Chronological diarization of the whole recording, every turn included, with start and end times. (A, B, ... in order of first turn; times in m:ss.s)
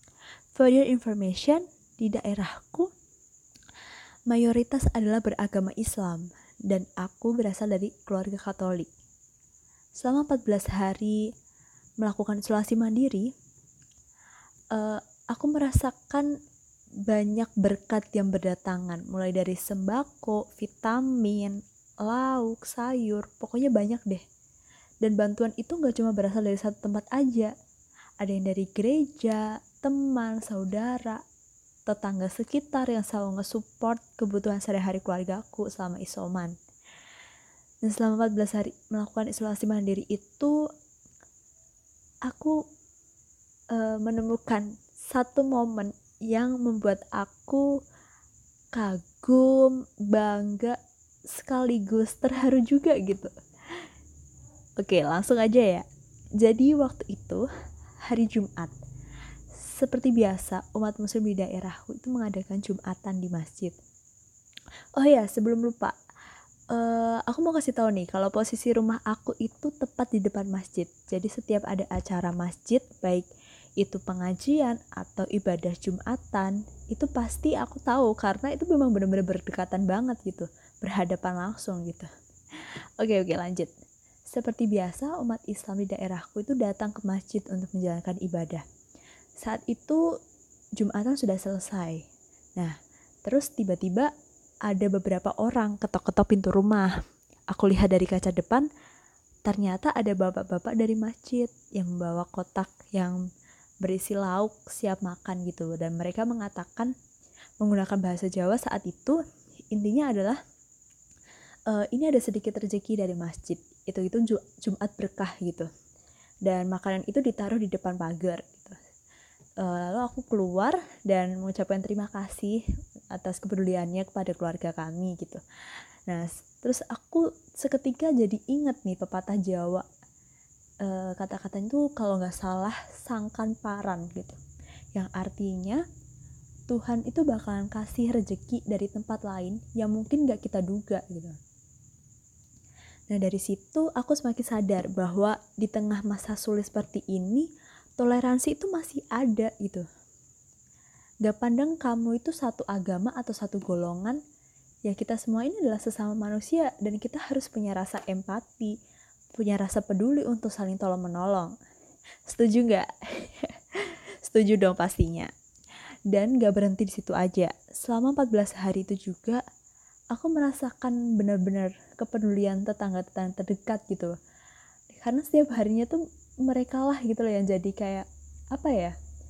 0:00.6-0:02.9 A
0:04.3-0:08.9 A
0:10.0-0:11.2 A
0:12.0-0:13.3 A
0:14.7-0:16.3 A
0:17.1-0:24.2 A
0:25.0-0:27.5 A
0:28.2-0:31.2 A
0:31.9-0:36.6 A
0:37.8-0:40.6 A
0:42.3-0:42.6 A
0:43.7-0:47.7 A
0:48.8-0:50.8 A
0:51.3-0:53.3 A
0:54.8-0:55.9 A
0:56.4-0:57.4 A
0:58.1-0:58.7 A
0:59.6-1:03.8 A
1:05.0-1:06.0 A
1:06.7-1:13.3 A
1:13.8-1:23.7 A
1:24.3-1:28.6 A
1:29.4-1:30.0 A
1:30.8-1:32.0 A
1:32.6-1:34.1 A
1:34.7-1:37.0 A
1:37.5-1:38.7 A
1:39.4-1:43.2 A
1:43.8-1:46.9 A
1:47.6-1:49.2 A
1:49.7-1:50.4 A
1:51.7-1:55.7 A
1:56.4-1:58.8 A
1:59.6-2:02.6 A
2:03.1-2:05.4 A
2:06.1-2:09.9 A
2:10.8-2:14.4 A
2:15.0-2:15.8 A
2:16.7-2:21.4 A
2:23.1-2:29.8 A
2:31.2-2:34.2 A
2:34.8-2:38.8 A
2:39.4-2:41.6 A
2:42.3-2:45.3 A
2:46.1-2:49.4 A
2:50.1-2:54.2 A
2:54.9-2:59.0 A